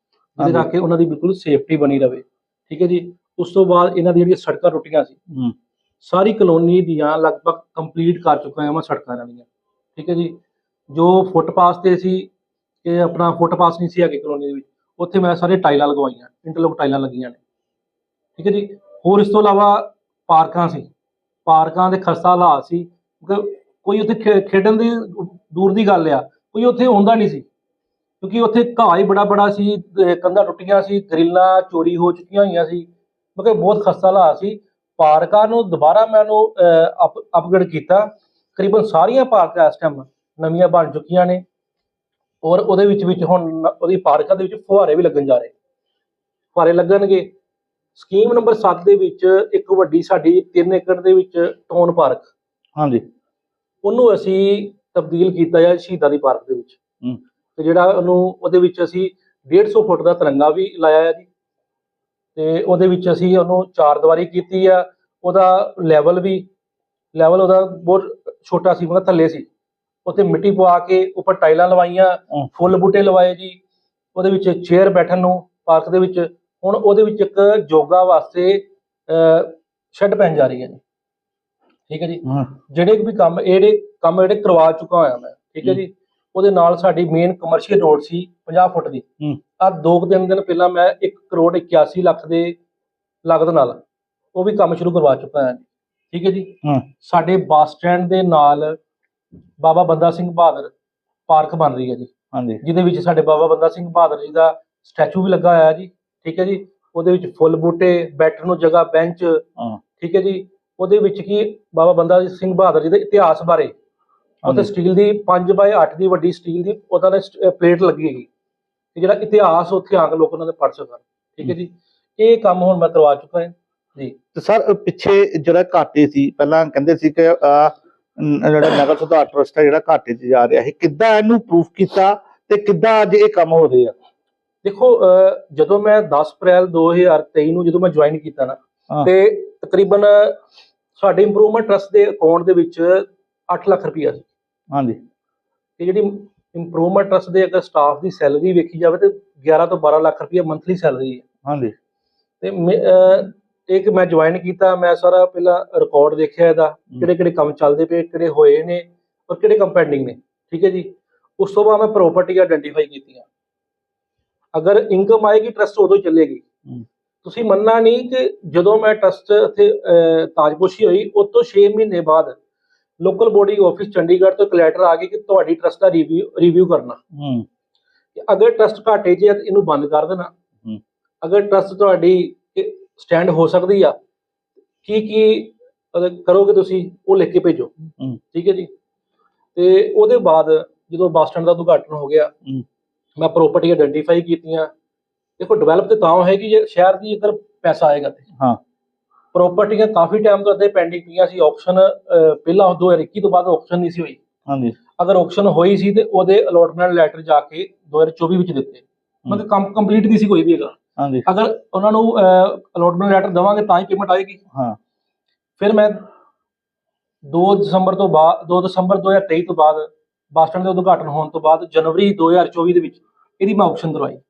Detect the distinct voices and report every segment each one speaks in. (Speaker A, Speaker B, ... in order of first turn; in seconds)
Speaker A: 0.4-5.1, 6.0-10.4, 10.9-12.3, 12.8-17.4, 18.4-20.9, 21.4-27.4, 28.2-41.4, 42.4-45.5, 46.5-47.3, 47.9-52.3, 53.8-56.8, 57.6-61.3, 62.4-66.5, 67.1-69.5, 70.0-73.6, 74.1-80.8, 81.9-89.0, 89.6-92.6, 93.2-93.8, 94.3-98.8, 99.6-100.7, 101.3-102.1, 102.6-109.4, 110.0-113.7, 114.4-118.3, 118.9-124.2, 134.6-140.4, 140.9-144.3, 145.8-151.2, 152.4-163.2, 164.5-166.4, 167.2-172.4, 173.0-177.0, 178.2-180.3, 181.2-183.9, 184.8-187.7, 188.3-188.7, 189.5-192.3, 193.2-194.7, 195.4-198.2, 199.3-204.2, 205.0-214.4, 215.6-216.0, 217.3-224.2
Speaker B: 0.4-0.7, 52.8-53.0, 102.3-102.6, 114.4-114.7, 124.3-133.9, 144.7-145.0, 151.4-151.7, 177.1-177.4, 204.5-204.7, 211.0-211.2